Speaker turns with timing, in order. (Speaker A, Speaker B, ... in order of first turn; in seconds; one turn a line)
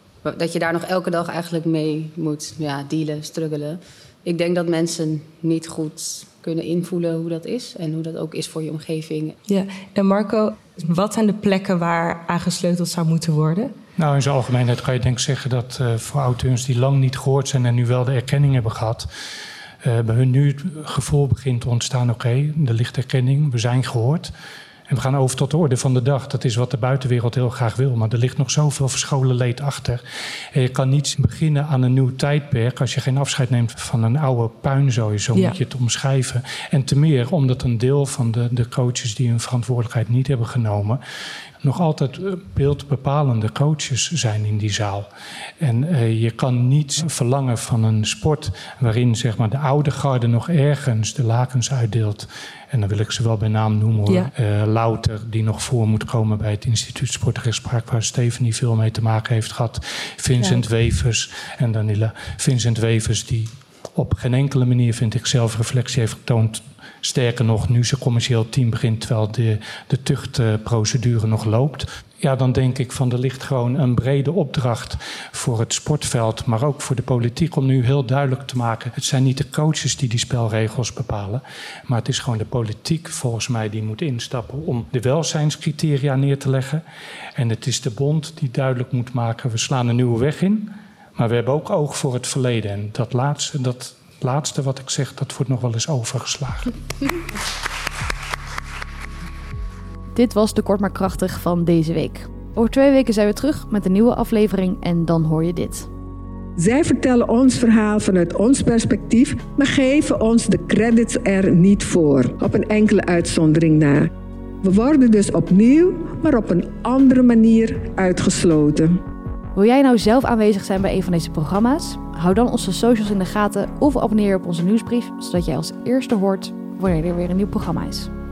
Speaker A: 0.2-9.4
Speaker B: 9.5-13.7
Speaker C: 14.0-19.1
Speaker C: 19.8-24.3
Speaker C: 24.9-30.0
Speaker C: 30.5-41.0
Speaker C: 41.6-86.8
Speaker C: 87.3-96.7
Speaker D: 100.1-105.9
Speaker E: 106.6-114.1
Speaker E: 114.6-119.0
Speaker D: 119.5-128.1